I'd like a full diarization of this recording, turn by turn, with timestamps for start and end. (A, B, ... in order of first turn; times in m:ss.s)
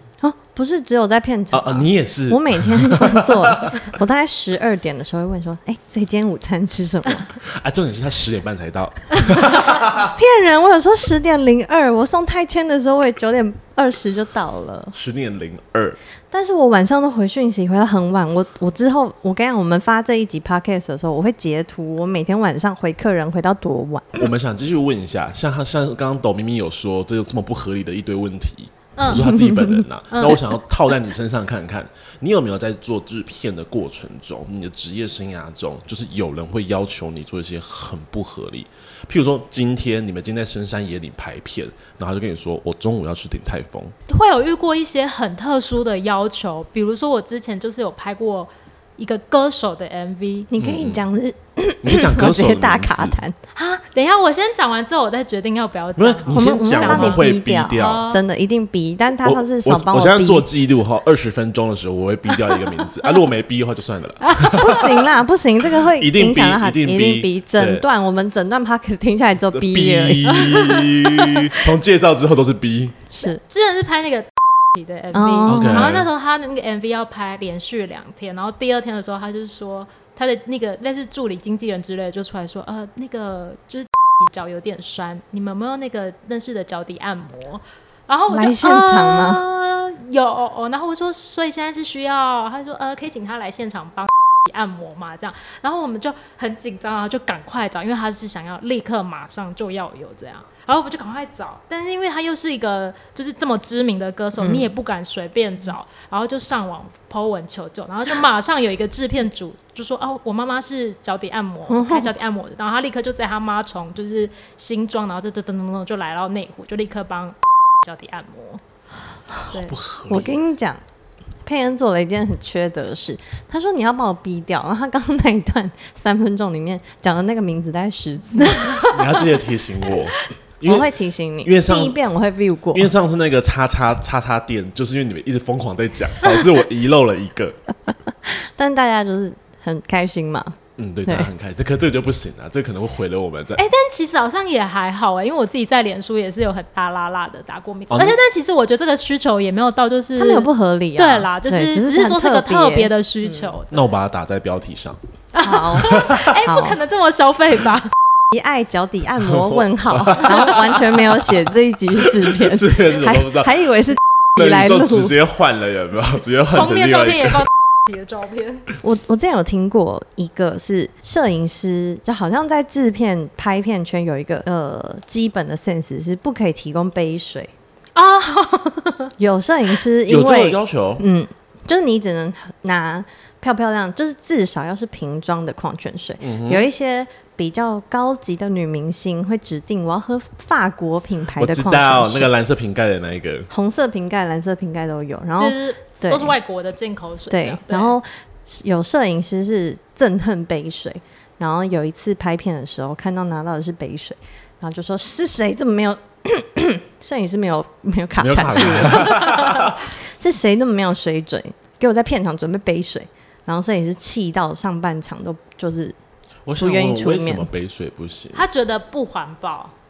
0:00.2-0:07.3 A
0:01.5-0:03.9 B
0:07.4-0:10.1 B
0:10.1-0:14.9 A
0:14.9-0:16.0 B
0:16.3-0:24.3 A
0:24.2-0:43.9 B
0:29.0-0:29.3 C
0:29.1-0:29.8 A
0:30.1-0:30.4 C
0:44.1-0:50.5 C
0:50.5-0:53.4 A
0:50.6-0:51.0 B
0:51.8-0:53.2 B
0:53.5-0:57.2 C
0:56.0-0:58.0 B
0:56.3-1:00.5 A
0:57.8-0:58.2 C
0:59.2-1:04.9 B
1:04.2-1:04.9 C
1:04.6-1:10.4 A
1:05.8-1:07.8 B
1:09.5-1:13.0 B
1:10.3-1:11.1 C
1:13.1-1:13.4 A
1:13.2-1:58.6 C
1:15.1-1:15.9 A
1:15.5-1:16.1 B
1:28.3-1:29.4 A
1:44.4-1:44.6 A
1:51.7-1:52.1 A
1:59.5-2:00.4 B
2:00.1-2:00.8 A
2:01.4-2:08.8 A
2:08.4-2:08.9 C
2:08.8-2:10.9 B
2:10.6-2:12.9 A
2:11.4-2:12.0 B
2:12.7-2:17.6 B
2:18.2-2:21.3 A
2:20.8-2:23.6 B
2:23.6-2:33.8 C
2:27.9-2:28.2 B
2:30.2-2:32.9 A
2:33.7-2:35.0 B
2:35.3-2:37.9 C
2:35.4-2:36.8 A
2:35.8-2:36.2 B
2:38.3-2:45.1 A
2:39.2-2:41.4 B
2:41.9-2:43.6 B
2:44.4-2:47.4 B
2:46.5-2:48.7 C
2:48.8-2:57.5 A
2:58.0-2:59.1 C
2:59.2-3:12.3 A
3:00.1-3:01.0 B
3:06.2-3:06.7 B
3:11.4-3:13.5 B
3:13.5-3:16.4 A
3:15.4-3:18.0 C
3:17.3-3:36.0 A
3:28.2-3:29.8 B
3:36.4-3:38.4 B
3:36.6-3:37.5 A
3:38.3-3:39.7 C